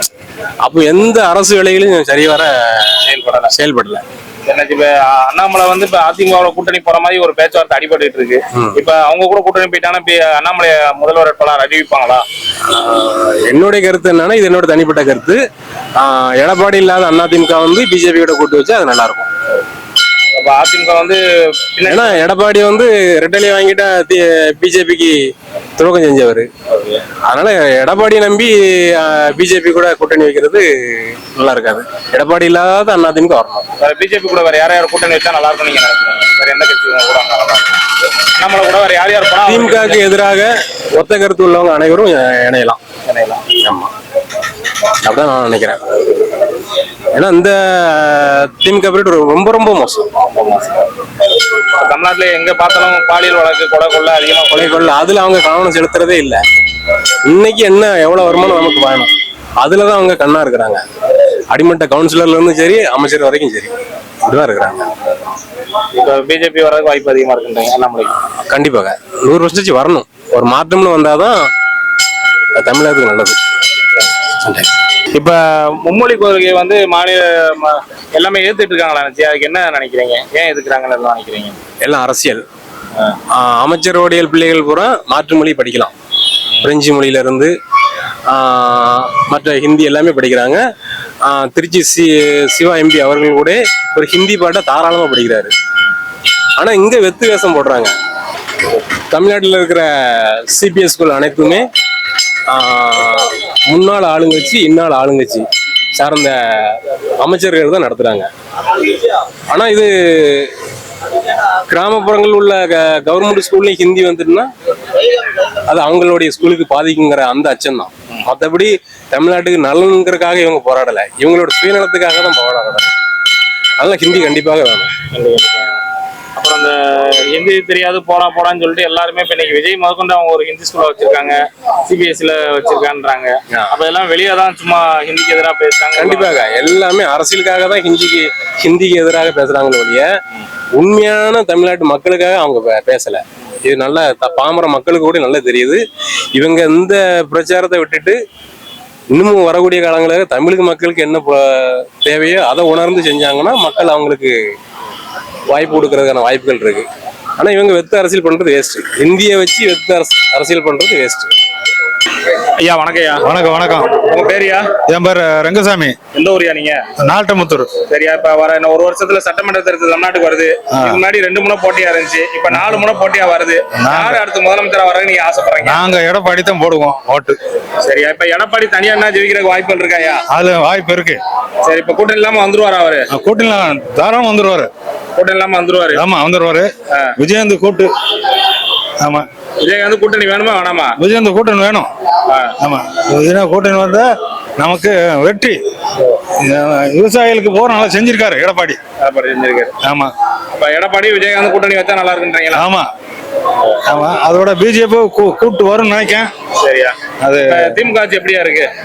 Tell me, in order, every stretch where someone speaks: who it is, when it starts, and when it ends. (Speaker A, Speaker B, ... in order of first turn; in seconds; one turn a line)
Speaker A: 0.6-2.9
Speaker B: 3.0-3.5
Speaker A: 3.5-4.0
Speaker B: 4.5-12.2
Speaker A: 12.7-15.4
Speaker A: 16.0-19.3
Speaker B: 20.4-22.2
Speaker A: 21.9-25.1
Speaker A: 25.8-26.5
Speaker B: 26.7-27.0
Speaker A: 27.3-33.6
Speaker B: 33.8-37.8
Speaker B: 38.4-40.0
Speaker A: 39.5-42.8
Speaker B: 43.0-43.4
Speaker A: 43.6-43.9
Speaker A: 45.0-45.8
Speaker A: 47.1-50.0
Speaker B: 50.2-50.9
Speaker B: 51.8-55.0
Speaker A: 54.5-56.4
Speaker A: 57.3-59.1
Speaker A: 59.6-60.8
Speaker A: 61.5-63.7
Speaker A: 64.2-64.9
Speaker B: 66.0-68.1
Speaker A: 68.5-71.4
Speaker A: 72.6-73.4
Speaker B: 75.2-81.6
Speaker A: 81.8-82.4
Speaker A: 83.3-85.9
Speaker A: 86.6-87.5
Speaker A: 88.3-90.6
Speaker A: 91.3-95.5
Speaker A: 96.6-97.9
Speaker A: 99.1-99.8
Speaker A: 100.5-101.6
Speaker A: 102.5-105.4
Speaker A: 106.0-108.3
Speaker A: 109.5-110.5
Speaker A: 111.7-114.5
Speaker A: 115.7-122.9
Speaker A: 123.8-124.9
Speaker B: 125.1-125.8
Speaker B: 126.4-136.4
Speaker A: 136.0-140.0
Speaker A: 140.8-145.8
Speaker A: 146.3-148.2
Speaker A: 149.1-154.3
Speaker A: 155.5-156.8
Speaker A: 157.4-161.3
Speaker B: 162.6-163.3
Speaker C: 163.2-164.0
Speaker B: 164.0-164.6
Speaker C: 164.9-165.9
Speaker B: 166.1-166.8
Speaker C: 167.0-167.7
Speaker B: 167.8-175.8
Speaker C: 173.8-174.2
Speaker C: 175.7-177.4
Speaker B: 177.8-180.2
Speaker C: 180.3-181.2
Speaker B: 181.6-183.1
Speaker C: 183.1-184.7
Speaker B: 185.2-186.0
Speaker C: 185.9-186.7
Speaker C: 187.2-187.9
Speaker B: 189.6-190.9
Speaker C: 191.0-191.9
Speaker C: 192.6-194.1
Speaker C: 194.6-195.6
Speaker C: 196.4-198.8
Speaker B: 199.0-199.7
Speaker C: 199.8-200.1
Speaker B: 200.5-202.7
Speaker C: 202.5-202.9
Speaker C: 203.9-206.3
Speaker B: 206.6-206.9
Speaker C: 207.2-207.8
Speaker B: 207.5-208.7